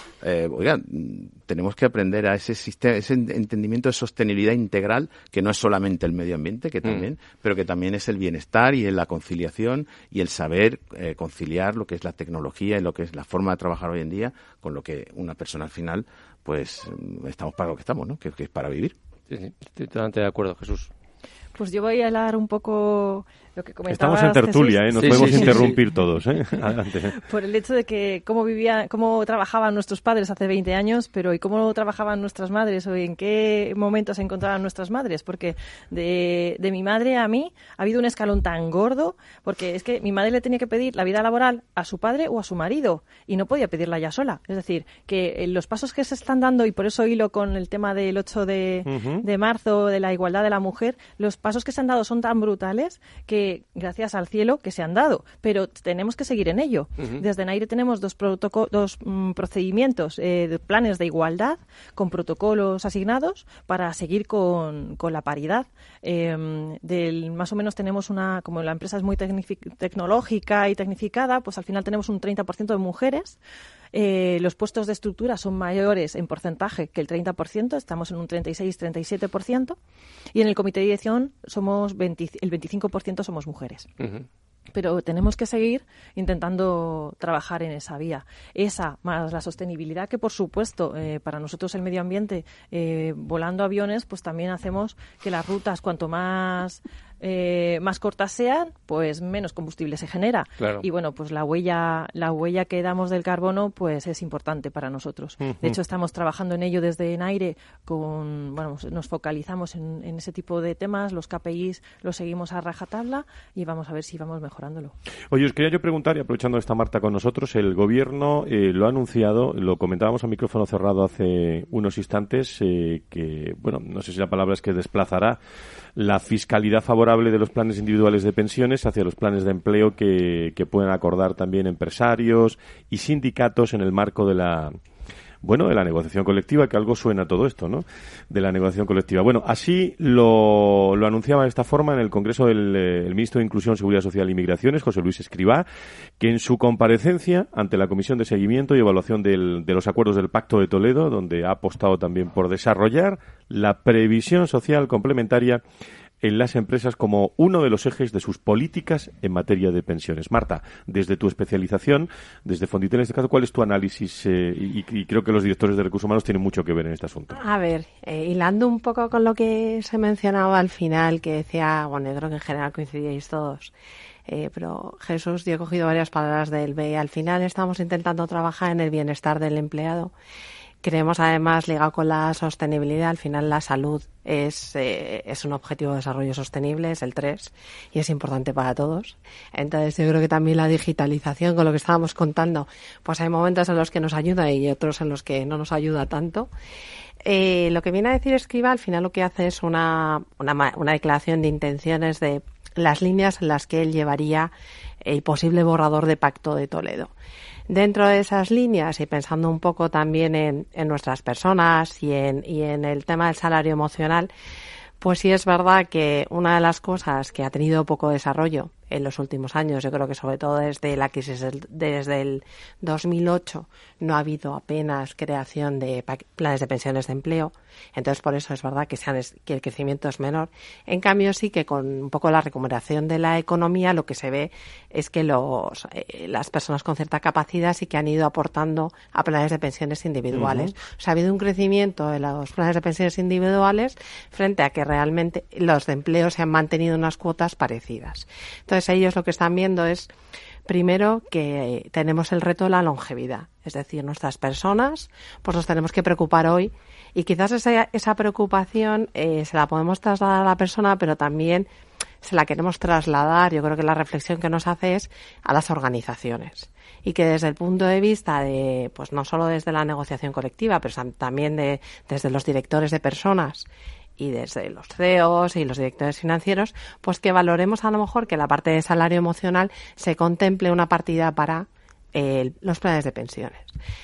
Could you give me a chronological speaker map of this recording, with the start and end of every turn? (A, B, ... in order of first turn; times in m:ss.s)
0:00.2-0:18.9 A
0:19.3-0:20.9 B
0:21.6-0:25.8 C
0:23.9-0:27.2 D
0:25.0-0:25.8 B
0:27.2-1:13.4 C
0:48.9-0:49.2 D
0:57.0-0:57.2 B
1:13.9-1:19.8 C
1:20.4-1:23.9 C
1:24.0-1:24.2 B
1:24.7-1:55.0 C
1:40.6-1:40.8 B
1:45.4-1:45.8 D
1:55.3-2:05.4 D
2:06.0-2:14.8 D
2:15.4-2:25.7 D
2:26.2-2:35.6 D
2:36.2-2:47.4 D
2:47.3-2:53.7 E
2:54.3-3:00.1 E
3:00.8-3:16.5 E
3:17.2-3:27.1 E
3:27.7-3:34.3 E
3:35.0-4:10.1 E
4:00.3-4:00.7 D
4:10.7-4:21.7 E
4:22.2-4:43.8 E